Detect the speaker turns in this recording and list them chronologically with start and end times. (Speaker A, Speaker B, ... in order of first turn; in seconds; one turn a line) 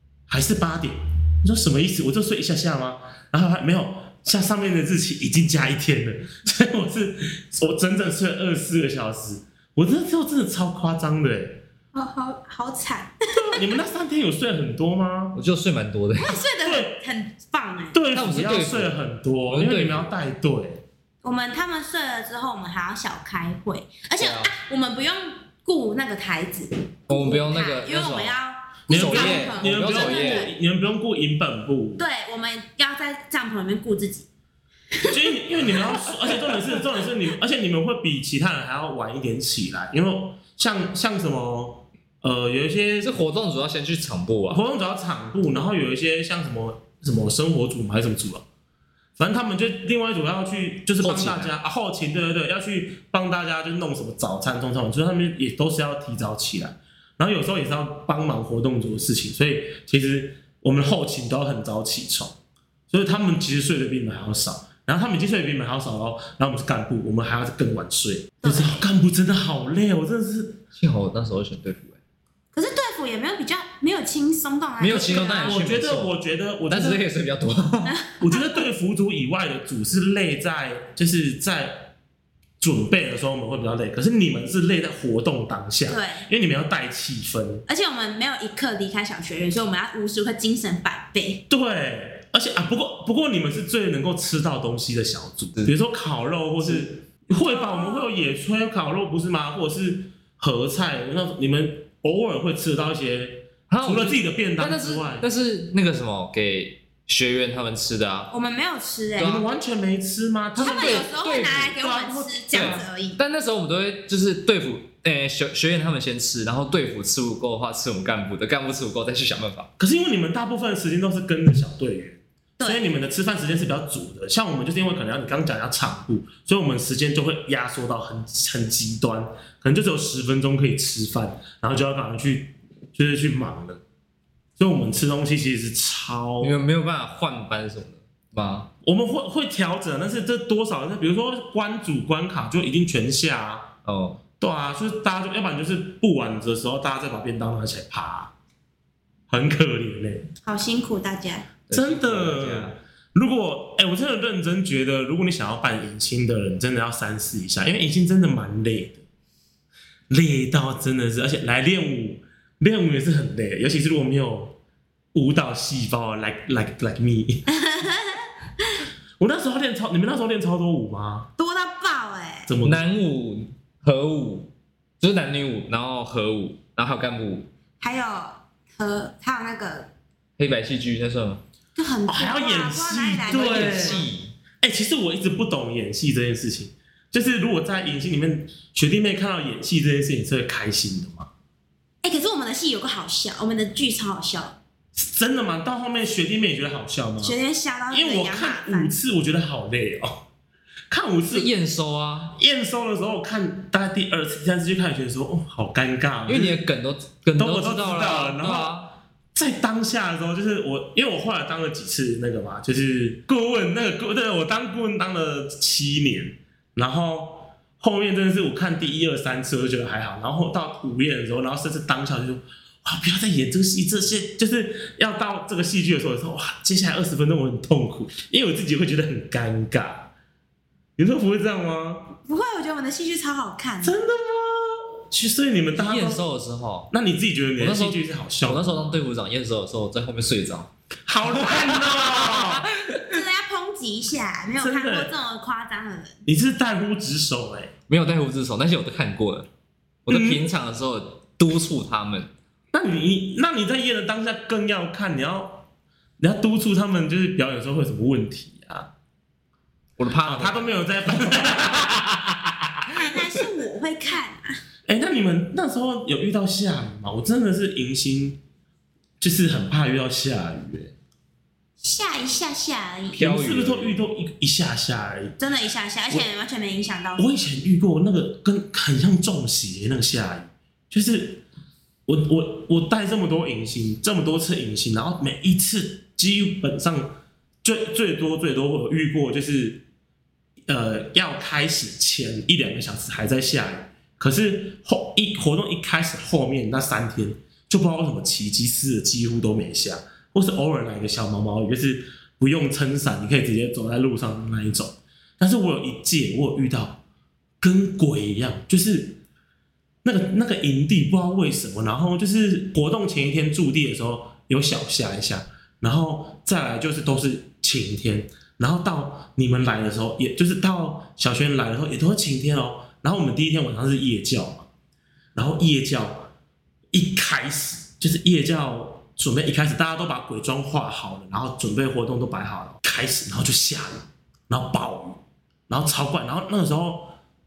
Speaker A: 0.3-11.6
Speaker B: 11.9-13.6
Speaker A: 13.3-15.4
Speaker C: 15.3-16.4
Speaker B: 16.2-18.0
Speaker A: 16.6-17.0
Speaker A: 17.9-20.8
Speaker C: 18.1-18.9
Speaker C: 19.5-20.1
Speaker B: 21.2-30.5
Speaker C: 24.2-24.5
Speaker C: 27.1-28.4
Speaker C: 28.9-30.5
Speaker A: 28.9-32.0
Speaker B: 32.0-34.3
Speaker B: 35.0-36.8
Speaker A: 35.1-43.1
Speaker C: 43.0-44.6
Speaker A: 44.5-48.5
Speaker A: 49.2-62.4
Speaker C: 51.0-51.5
Speaker A: 62.9-70.6
Speaker B: 68.4-68.8
Speaker C: 70.8-72.0
Speaker B: 72.5-75.6
Speaker C: 74.8-76.2
Speaker A: 75.4-77.0
Speaker C: 76.7-78.0
Speaker B: 77.9-78.6
Speaker A: 78.2-81.9
Speaker A: 82.6-87.7
Speaker B: 85.9-86.3
Speaker B: 87.7-91.4
Speaker A: 91.5-105.3
Speaker B: 97.4-98.1
Speaker C: 103.7-108.3
Speaker B: 108.3-109.4
Speaker C: 109.2-109.5
Speaker A: 109.2-111.1
Speaker C: 110.6-111.8
Speaker B: 110.6-113.2
Speaker A: 111.8-112.8
Speaker C: 112.5-119.7
Speaker A: 119.8-133.8
Speaker B: 122.6-122.9
Speaker A: 134.6-136.6
Speaker C: 136.4-138.7
Speaker A: 138.8-143.7
Speaker C: 143.8-144.2
Speaker A: 144.4-148.3
Speaker A: 149.3-150.3
Speaker B: 150.4-151.5
Speaker C: 151.7-152.8
Speaker A: 151.7-159.0
Speaker A: 160.1-164.6
Speaker A: 165.1-167.5
Speaker B: 167.5-168.8
Speaker A: 169.2-171.3
Speaker B: 171.4-172.5
Speaker A: 172.5-172.9
Speaker C: 172.6-177.5
Speaker B: 177.8-179.9
Speaker C: 180.4-181.4
Speaker B: 181.8-184.1
Speaker A: 182.1-184.1
Speaker C: 183.3-184.3
Speaker A: 184.6-191.3
Speaker B: 192.0-194.6
Speaker A: 195.0-197.4
Speaker B: 197.2-198.9
Speaker A: 197.9-200.2
Speaker A: 200.9-201.5
Speaker C: 201.3-202.4
Speaker A: 202.3-206.6
Speaker C: 206.3-208.9
Speaker A: 207.3-208.8
Speaker A: 209.3-230.1
Speaker A: 231.0-232.2
Speaker B: 232.2-234.0
Speaker A: 233.8-236.2
Speaker C: 235.8-236.9
Speaker A: 236.9-239.0
Speaker C: 237.6-240.7
Speaker A: 241.1-242.7
Speaker C: 241.3-243.2
Speaker B: 243.1-246.2
Speaker A: 244.6-245.1
Speaker A: 246.3-247.7
Speaker C: 247.9-249.5
Speaker C: 250.1-252.3
Speaker A: 250.1-250.5
Speaker A: 252.7-255.7
Speaker A: 256.2-258.9
Speaker C: 260.0-262.0
Speaker A: 260.2-262.5
Speaker B: 263.0-264.6
Speaker A: 264.9-268.4
Speaker A: 269.2-270.9
Speaker B: 271.8-273.2
Speaker C: 273.2-274.0
Speaker A: 273.2-275.4
Speaker B: 275.4-277.3
Speaker A: 277.2-281.4
Speaker A: 282.1-289.8
Speaker A: 290.7-307.0
Speaker A: 307.6-309.2
Speaker A: 310.0-324.7
Speaker A: 325.4-326.3
Speaker A: 326.9-337.2